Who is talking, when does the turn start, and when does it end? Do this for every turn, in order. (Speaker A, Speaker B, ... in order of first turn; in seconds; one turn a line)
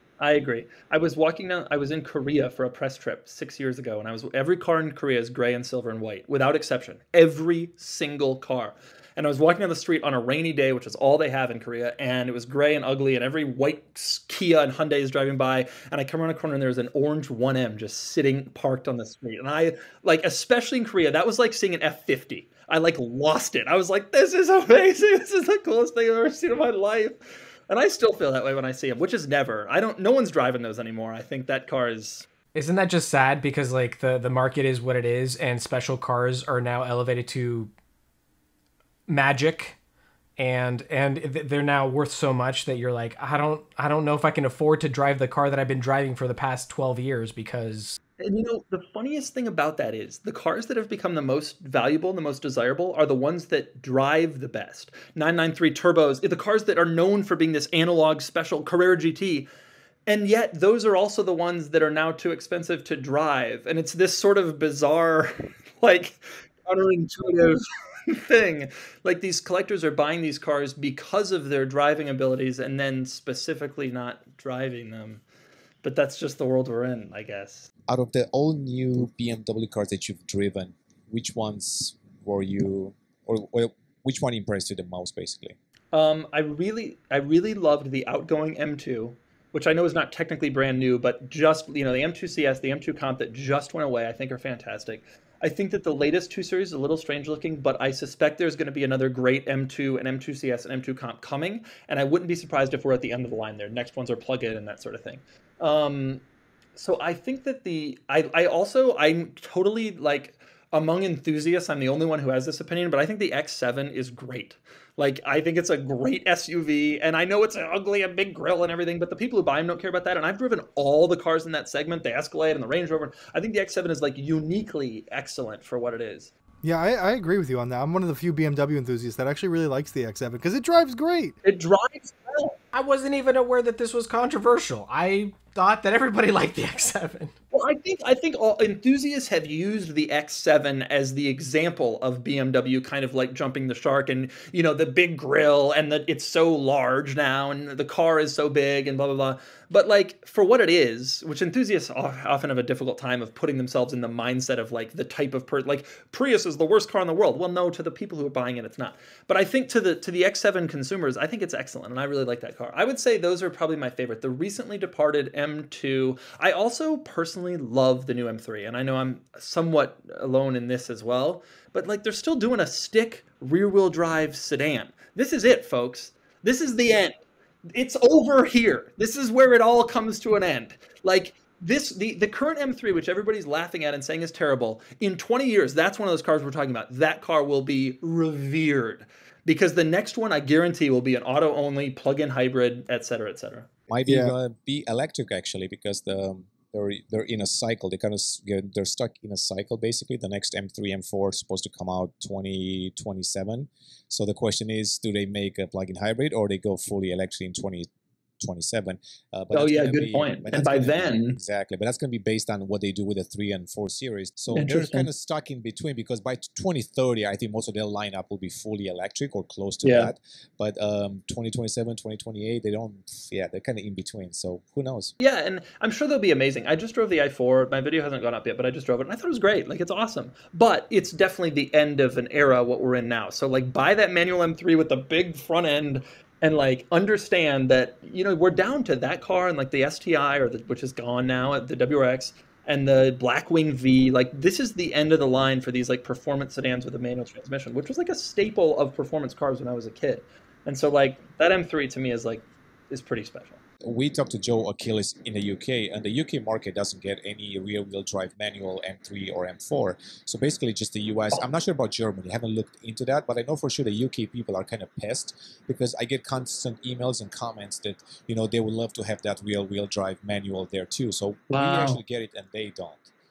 Speaker A: 0.2-32.3
Speaker B: 32.5-37.7
Speaker B: 39.1-39.8
Speaker B: 40.4-48.0
Speaker A: 48.2-59.5
Speaker A: 60.1-75.2
Speaker A: 75.8-77.7
Speaker C: 77.9-85.6
Speaker A: 85.9-106.2
Speaker A: 106.8-126.3
Speaker D: 126.6-131.4
Speaker A: 131.4-132.6
Speaker B: 132.7-137.3
Speaker A: 137.5-177.1
Speaker A: 177.7-193.7
Speaker C: 193.9-207.9
Speaker D: 194.1-194.3
Speaker C: 208.4-225.2
Speaker A: 209.5-211.4
Speaker A: 214.5-215.1
Speaker A: 219.8-220.1
Speaker A: 225.2-253.6
Speaker C: 253.8-273.1
Speaker A: 271.5-272.0